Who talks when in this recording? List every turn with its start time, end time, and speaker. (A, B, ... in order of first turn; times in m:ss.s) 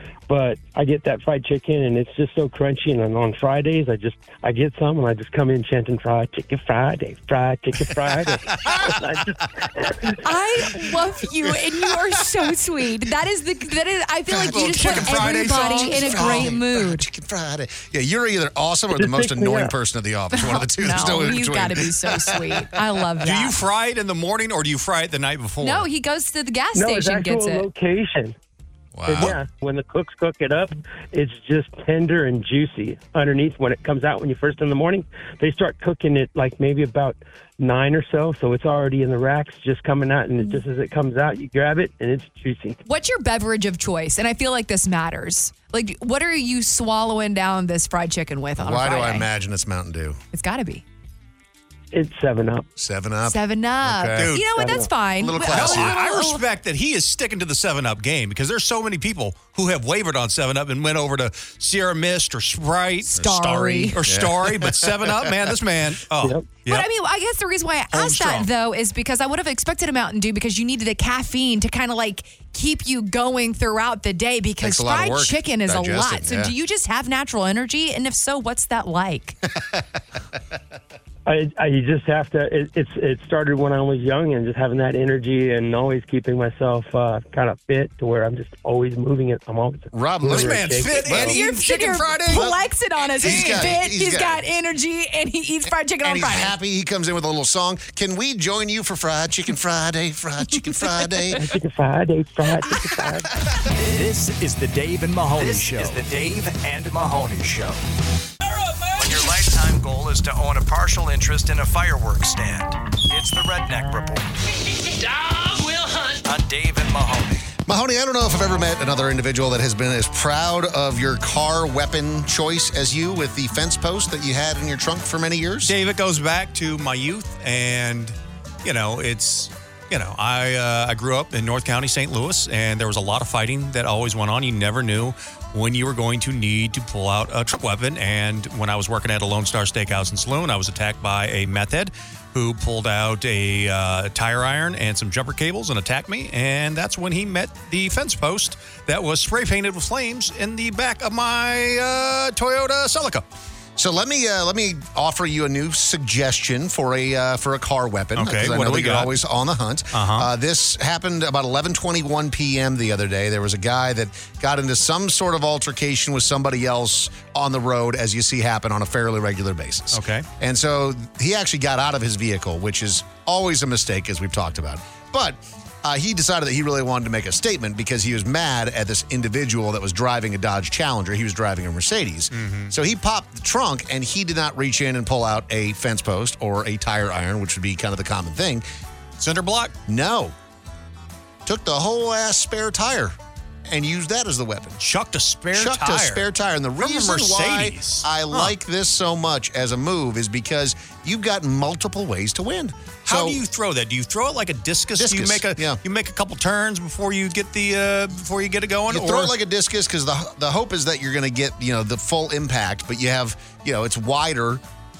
0:00.3-0:10.2 A
0:10.2-0:17.0 B
0:14.3-0:22.6 C
0:14.5-0:16.5 D
0:18.9-0:19.7 A
0:20.3-0:23.5 B
0:23.2-0:25.9 D
0:25.6-0:27.7 B
0:26.7-0:28.3 A
0:29.0-0:29.4 C
0:29.1-0:42.8 A
0:42.8-0:49.3 B
0:48.6-0:50.2 C
0:50.3-0:50.8 B
0:51.9-0:52.7 A
0:52.8-0:54.3 C
0:53.2-0:56.4 B
0:54.2-0:54.5 D
0:54.5-0:54.9 A
0:55.2-0:56.0 C
0:55.5-1:06.9 D
1:03.1-1:04.0 B
1:03.2-1:05.3 C
1:06.7-1:19.4 B
1:07.9-1:08.5 D
1:14.6-1:16.5 C
1:19.5-1:19.8 C
1:21.2-1:31.0 A
1:29.9-1:31.4 C
1:30.2-1:32.5 D
1:31.0-1:36.5 B
1:32.3-1:32.6 C
1:33.2-1:34.4 C
1:33.2-1:33.7 D
1:36.0-1:41.4 C
1:41.3-1:43.3 A
1:43.8-1:47.8 E
1:49.0-1:54.2 E
1:56.2-1:57.4 E
1:57.6-2:05.7 C
2:05.6-2:33.2 D
2:33.8-3:08.6 C
2:38.2-2:39.1 D
2:39.9-2:40.3 D
2:49.9-2:50.3 D
3:02.3-3:02.7 D
3:09.2-3:09.7 D
3:09.9-3:10.3 C
3:11.4-3:13.1 C
3:13.6-3:14.8 C
3:14.8-3:16.2 D
3:15.5-3:23.4 C
3:16.8-3:18.5 D
3:23.0-3:29.3 D
3:25.0-3:25.8 C
3:28.9-3:34.6 C